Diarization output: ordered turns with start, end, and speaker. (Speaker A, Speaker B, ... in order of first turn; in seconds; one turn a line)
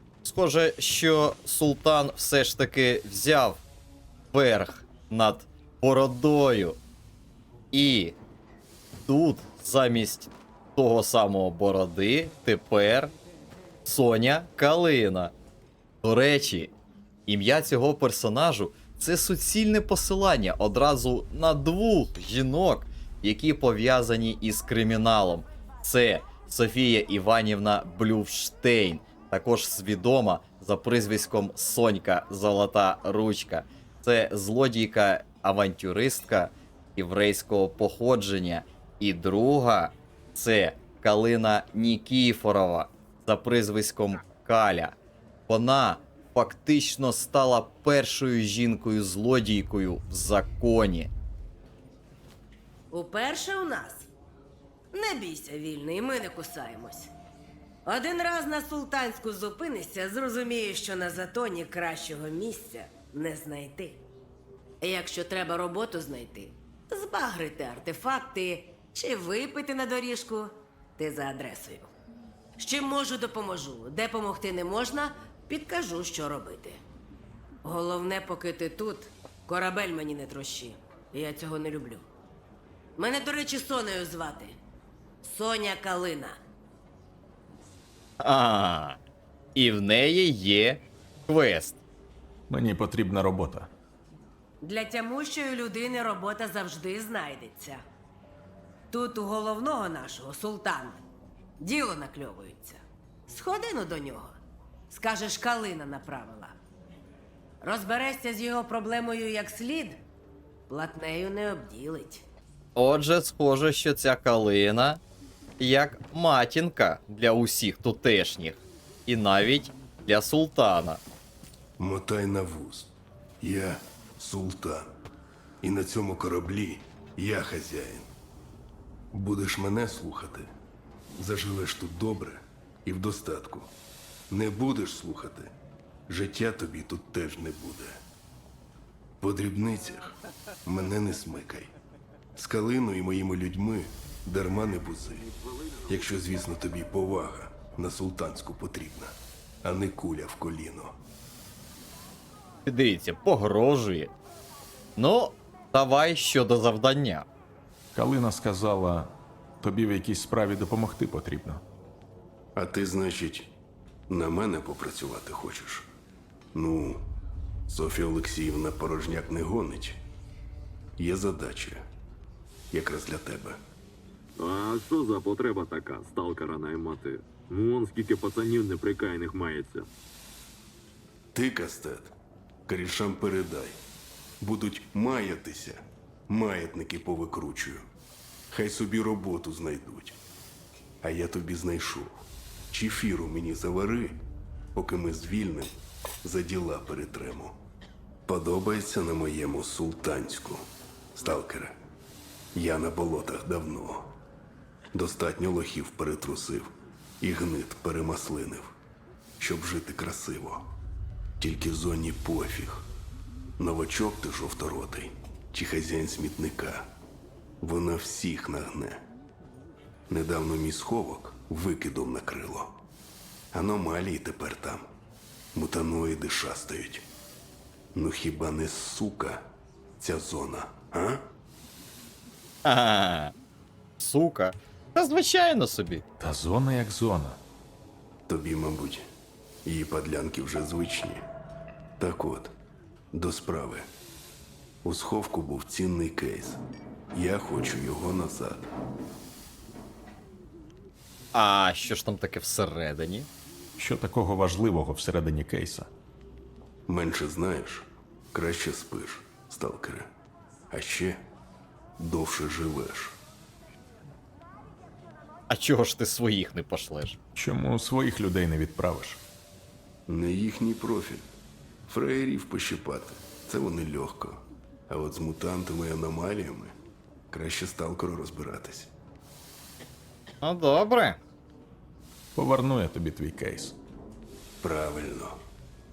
Speaker A: 0.2-3.6
Speaker A: 4.3-6.8
Speaker A: 7.7-8.2
Speaker A: 9.1-13.1
Speaker A: 13.8-15.3
Speaker A: 16.0-16.7
Speaker A: 17.3-44.9
Speaker A: 45.5-51.1
Speaker B: 52.9-54.1
Speaker B: 54.9-57.1
Speaker B: 57.9-64.0
Speaker B: 64.8-71.9
Speaker B: 72.6-76.8
Speaker B: 77.6-82.1
Speaker B: 83.0-84.5
Speaker B: 85.2-86.4
Speaker A: 88.2-89.0
Speaker A: 89.5-91.8
Speaker C: 92.5-93.7
Speaker B: 94.6-97.8
Speaker B: 98.9-101.0
Speaker B: 101.6-104.4
Speaker B: 104.9-106.6
Speaker B: 107.6-110.0
Speaker B: 110.7-112.2
Speaker A: 112.8-115.0
Speaker A: 115.6-121.0
Speaker D: 121.8-124.9
Speaker D: 125.6-128.1
Speaker D: 129.1-130.5
Speaker D: 131.2-133.7
Speaker D: 134.3-135.5
Speaker D: 136.1-138.0
Speaker D: 139.2-140.1
Speaker D: 140.7-141.7
Speaker D: 142.3-150.9
Speaker A: 152.7-154.1
Speaker A: 155.0-157.3
Speaker C: 157.9-161.6
Speaker D: 162.6-163.5
Speaker D: 164.1-165.9
Speaker D: 166.5-167.0
Speaker D: 167.7-170.0
Speaker D: 171.0-171.8
Speaker D: 172.7-173.6
Speaker E: 174.4-179.8
Speaker D: 181.3-182.1
Speaker D: 182.7-183.8
Speaker D: 184.4-187.8
Speaker D: 188.5-190.2
Speaker D: 191.0-194.2
Speaker D: 194.8-197.6
Speaker D: 198.3-201.8
Speaker D: 202.6-204.2
Speaker D: 204.9-208.7
Speaker D: 209.4-210.7
Speaker D: 211.4-212.9
Speaker D: 213.6-216.9
Speaker D: 217.6-219.0
Speaker D: 220.1-222.8
Speaker D: 223.5-224.9
Speaker D: 225.6-227.1
Speaker D: 227.9-229.4
Speaker D: 230.0-231.2
Speaker A: 232.7-233.3
Speaker A: 234.0-236.0
Speaker C: 236.2-237.4
Speaker D: 238.3-239.1
Speaker D: 239.7-241.2
Speaker D: 242.0-242.5
Speaker D: 243.1-243.9
Speaker D: 244.8-246.6
Speaker D: 247.1-248.7
Speaker A: 251.3-253.3
Speaker C: 253.8-255.9
Speaker D: 256.9-260.1
Speaker D: 260.7-261.2
Speaker D: 262.0-263.1
Speaker A: 265.5-267.2
Speaker C: 267.4-269.2
Speaker D: 270.1-271.2
Speaker D: 271.9-276.8
Speaker D: 277.3-278.9
Speaker A: 280.4-281.2
Speaker C: 282.4-283.8
Speaker D: 284.6-285.4